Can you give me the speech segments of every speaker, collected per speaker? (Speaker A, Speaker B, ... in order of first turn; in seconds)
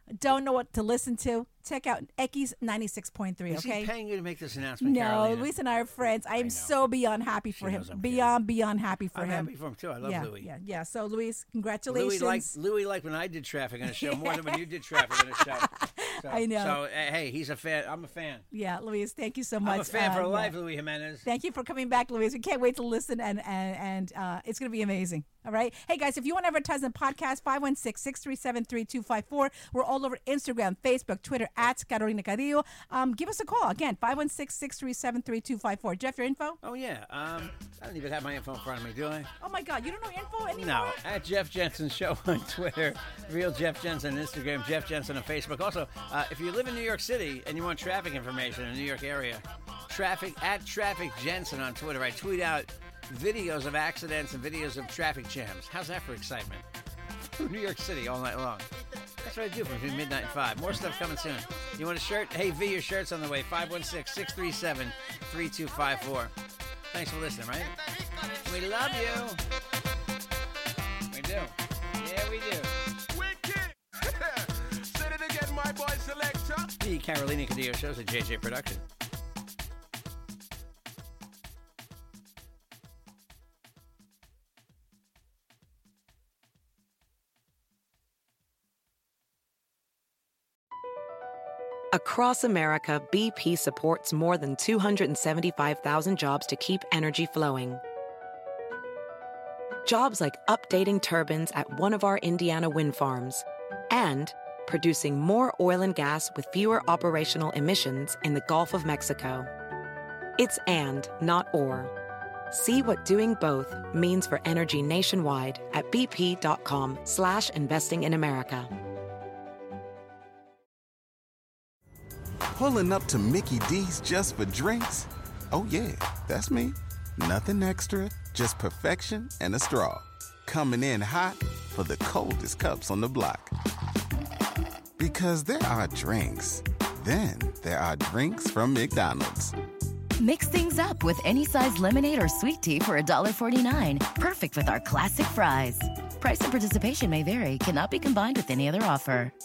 Speaker A: 0.2-3.9, 4.8-9.5, 10.0-12.5, 13.9-16.8, 18.5-20.6, 21.2-36.6, 39.4-41.0
Speaker B: 3.5-5.5, 6.3-6.9, 7.6-8.4, 9.1-10.5, 11.9-18.5, 19.6-21.3, 36.6-39.3, 40.6-56.6, 57.3-66.3, 66.9-67.8, 68.4-69.4, 71.1-72.8, 76.8-78.8
Speaker C: 73.2-76.7
Speaker D: 91.9-97.8, 99.8-109.5, 110.4-111.9, 112.5-118.7
Speaker E: 122.5-133.5, 135.0-139.5
Speaker F: 140.2-149.3